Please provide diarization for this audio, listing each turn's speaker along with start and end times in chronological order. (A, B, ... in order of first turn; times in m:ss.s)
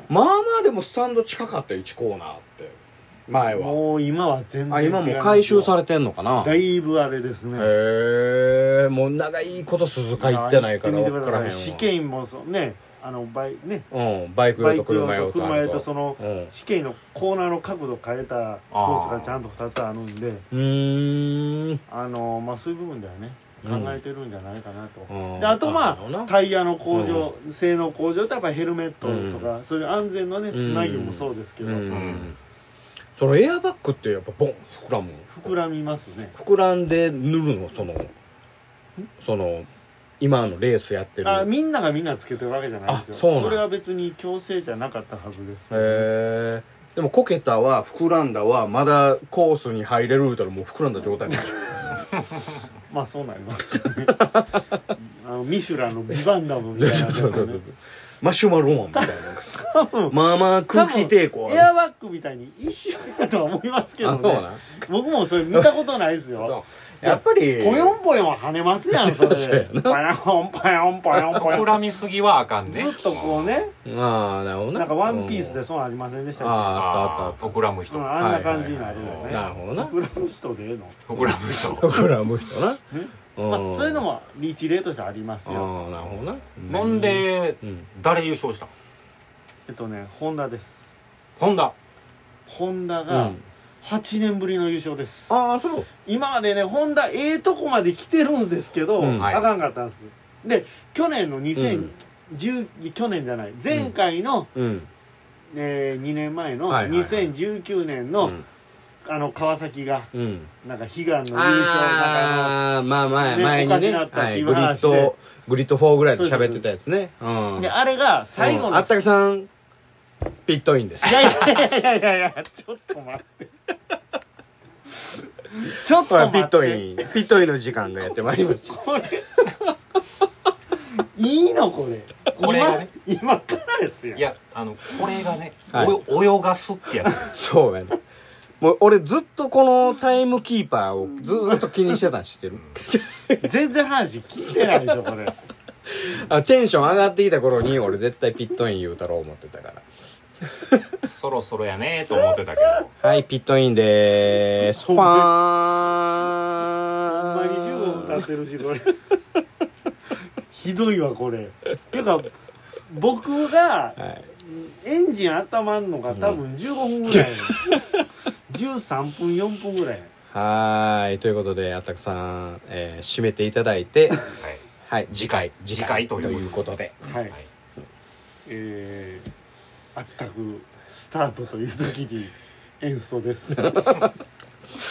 0:00.1-0:02.8 A
0:03.3-0:03.8 A
0:03.5-0:05.7 B
0:04.7-0:06.5 A
0:06.4-0:07.7 B
0:07.6-0:11.9 A
0:10.2-0:13.9 B
0:13.9-0:16.5 A
0:14.6-0:20.4 B
0:18.7-0:19.4 C
0:20.5-0:21.8 A
0:21.9-0:32.2 B
0:23.6-0:24.0 A
0:25.1-0:26.3 A
0:26.9-0:27.3 A
0:29.0-0:29.5 A
0:30.5-0:32.4 A
0:31.9-0:32.3 C
0:33.2-0:35.5 A
0:35.3-0:36.4 B
0:36.4-0:38.1 A
0:39.2-0:39.7 A
0:40.2-0:41.5 A
0:41.2-0:46.1 B
0:42.9-0:43.6 A
0:45.7-0:51.9 A
0:52.9-0:54.2 B
0:55.1-0:57.6 B
0:56.8-0:59.5 A
0:58.9-1:00.2 B
1:00.1-1:01.7 A
1:00.7-1:11.8 B
1:04.0-1:04.6 A
1:06.4-1:08.0 A
1:09.0-1:10.0 A
1:11.1-1:13.6 C
1:12.6-1:13.7 B
1:13.8-1:15.6 A
1:14.8-1:16.9 B
1:16.4-1:17.5 A
1:16.7-1:18.1 C
1:17.9-1:21.0 B
1:18.1-1:19.9 A
1:19.0-1:19.5 C
1:21.1-1:21.9 C
1:21.8-1:22.8 A
1:22.9-1:25.7 B
1:23.4-1:24.0 A
1:25.4-1:27.8 A
1:26.0-1:28.7 C
1:29.7-1:30.9 B
1:31.4-1:31.8 C
1:32.5-1:35.4 B
1:33.1-1:33.4 A
1:35.3-1:35.9 A
1:36.0-1:44.5 B
1:39.0-1:39.4 A
1:39.2-1:39.4 C
1:41.5-1:41.9 A
1:44.5-1:44.9 A
1:45.5-1:48.4 B
1:46.7-1:47.3 A
1:49.0-1:50.1 B
1:50.1-1:50.5 A
1:50.6-1:52.6 B
1:51.3-1:57.7 A
1:53.2-1:55.1 B
1:56.1-1:56.6 B
1:57.6-1:59.0 B
1:58.4-1:59.5 A
2:00.4-2:01.5 A
2:01.0-2:03.5 B
2:05.5-2:07.0 B
2:06.0-2:09.0 A
2:08.6-2:09.5 B
2:11.0-2:14.2 B
2:12.4-2:12.9 C
2:14.1-2:17.3 C
2:15.7-2:16.0 A
2:17.0-2:18.0 A
2:18.6-2:23.4 A
2:23.4-2:25.4 B
2:25.9-2:29.8 A
2:30.4-2:31.0 A
2:31.0-2:32.9 C
2:33.0-2:38.2 A
2:34.6-2:35.3 B
2:37.1-2:39.0 B
2:40.5-2:42.3 B
2:42.9-2:47.7 B
2:44.0-2:44.2 A
2:46.1-2:46.4 A
2:47.1-2:47.8 A
2:48.5-2:50.1 B
2:50.3-2:54.2 A
2:54.9-2:56.9 A
2:55.7-2:57.4 C
2:57.0-2:57.3 B
2:58.4-2:59.3 B
2:59.9-3:03.8 B
3:03.8-3:04.1 A